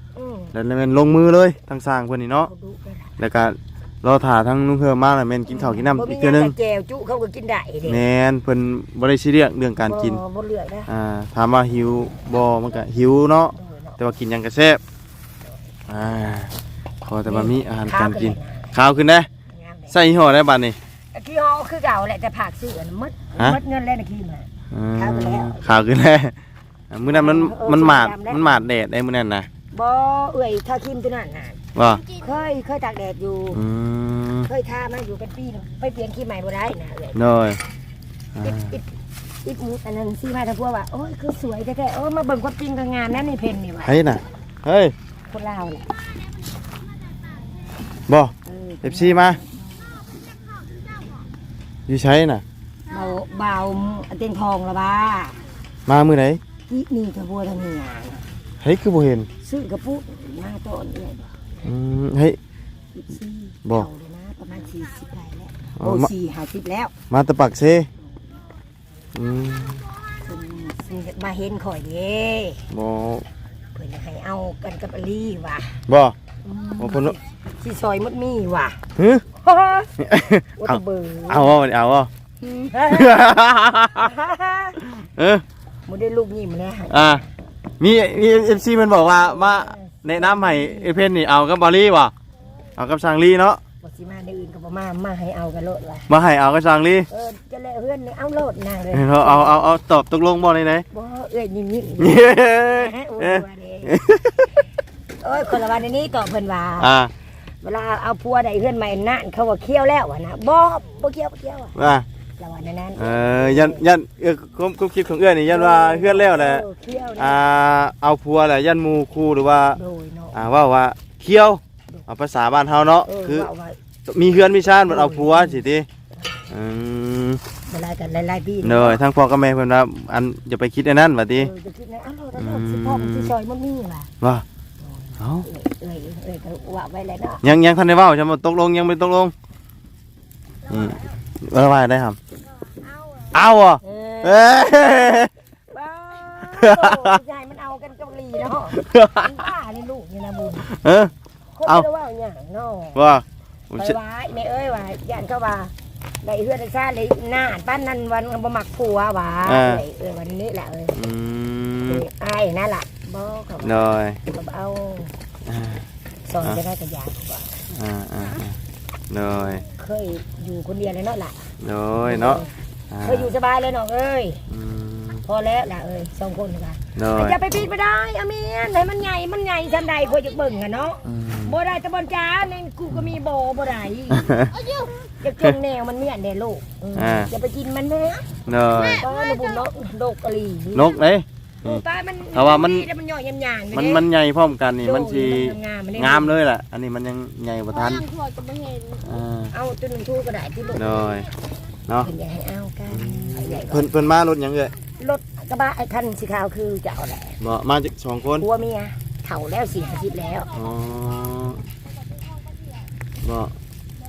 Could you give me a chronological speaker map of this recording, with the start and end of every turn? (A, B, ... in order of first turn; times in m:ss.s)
0:00.1-0:00.5 A
0:00.5-0:02.5 B
0:02.4-0:03.2 A
0:03.2-0:06.5 B
0:05.5-0:08.0 A
0:07.8-0:10.2 B
0:09.8-0:10.9 A
0:10.9-0:14.8 B
0:13.5-0:14.1 A
0:15.9-0:19.3 B
0:17.2-0:18.7 A
0:19.5-0:20.0 A
0:19.9-0:20.8 B
0:21.1-0:25.8 A
0:24.7-0:26.4 B
0:26.9-0:29.5 B
0:27.1-0:28.6 A
0:29.7-0:31.6 A
0:31.8-0:32.1 B
0:32.1-0:33.6 A
0:33.5-0:34.5 B
0:34.4-0:37.2 A
0:37.1-0:37.6 B
0:38.3-0:38.8 B
0:38.4-0:38.9 A
0:39.4-0:44.0 A
0:43.8-0:44.9 B
0:45.3-0:45.9 A
0:48.1-0:49.4 B
0:48.4-0:49.9 A
0:51.9-0:52.4 B
0:52.9-0:55.4 A
0:55.9-0:56.4 B
0:56.7-0:58.3 A
0:58.6-0:59.3 B
0:59.4-1:01.4 A
1:01.6-1:02.4 B
1:02.9-1:06.9 A
1:05.8-1:06.1 B
1:07.1-1:07.9 B
1:09.1-1:09.9 B
1:10.2-1:12.6 A
1:12.7-1:13.2 B
1:13.7-1:15.8 A
1:15.9-1:16.2 B
1:16.4-1:18.8 A
1:16.8-1:17.2 B
1:19.0-1:19.2 B
1:19.4-1:20.0 A
1:20.0-1:22.1 B
1:20.6-1:21.5 A
1:22.5-1:23.3 A
1:22.9-1:24.1 B
1:23.9-1:24.8 A
1:24.8-1:25.4 B
1:25.9-1:27.2 A
1:26.9-1:27.2 B
1:27.8-1:32.1 B
1:29.0-1:31.0 A
1:32.8-1:33.6 B
1:33.8-1:36.1 A
1:36.1-1:37.1 B
1:37.1-1:39.6 A
1:38.9-1:40.8 B
1:40.9-1:44.0 A
1:42.0-1:44.6 B
1:45.2-1:46.9 A
1:46.8-1:47.1 B
1:47.6-1:51.8 A
1:51.8-1:52.0 B
1:52.4-1:53.8 A
1:53.0-1:56.6 B
1:55.5-1:57.4 A
1:57.2-1:59.8 B
1:59.8-2:00.4 A
2:00.3-2:03.5 B
2:03.0-2:03.8 A
2:04.1-2:05.9 B
2:04.8-2:05.6 A
2:06.5-2:07.4 B
2:07.7-2:09.0 A
2:08.6-2:11.5 B
2:11.3-2:14.1 A
2:12.4-2:13.3 B
2:14.2-2:14.4 B
2:14.8-2:17.4 A
2:15.2-2:15.5 B
2:17.4-2:19.3 B
2:20.7-2:22.2 B
2:22.5-2:23.3 C
2:23.3-2:25.3 B
2:23.8-2:30.7 A
2:26.6-2:27.2 B
2:28.7-2:29.4 B
2:30.6-2:31.1 B
2:31.5-2:33.0 A
2:32.9-2:34.0 B
2:33.8-2:41.0 A
2:39.4-2:39.8 B
2:40.9-2:42.0 B
2:41.9-2:45.1 A
2:43.6-2:44.2 B
2:45.4-2:45.9 B
2:46.3-2:47.6 A
2:47.7-2:48.6 B
2:49.1-2:49.6 B
2:49.8-2:51.5 A
2:51.6-2:53.3 B
2:52.0-2:52.5 A
2:53.0-2:54.4 A
2:54.5-2:55.2 B
2:55.2-3:04.3 A
2:57.0-2:57.4 B
3:01.0-3:01.6 B
3:04.1-3:04.6 B
3:04.5-3:04.9 C
3:05.0-3:11.0 A
3:06.9-3:07.3 B
3:08.4-3:09.0 B
3:08.8-3:09.4 C
3:10.7-3:12.9 B
3:11.6-3:14.1 A
3:13.7-3:18.1 B
3:14.8-3:16.3 A
3:17.7-3:19.0 C
3:19.0-3:19.5 B
3:19.5-3:21.3 A
3:20.7-3:21.3 B
3:22.0-3:23.9 A
3:22.9-3:24.7 B
3:25.0-3:27.4 A
3:27.4-3:28.5 B
3:28.4-3:30.5 A
3:30.5-3:31.7 B
3:33.2-3:33.5 B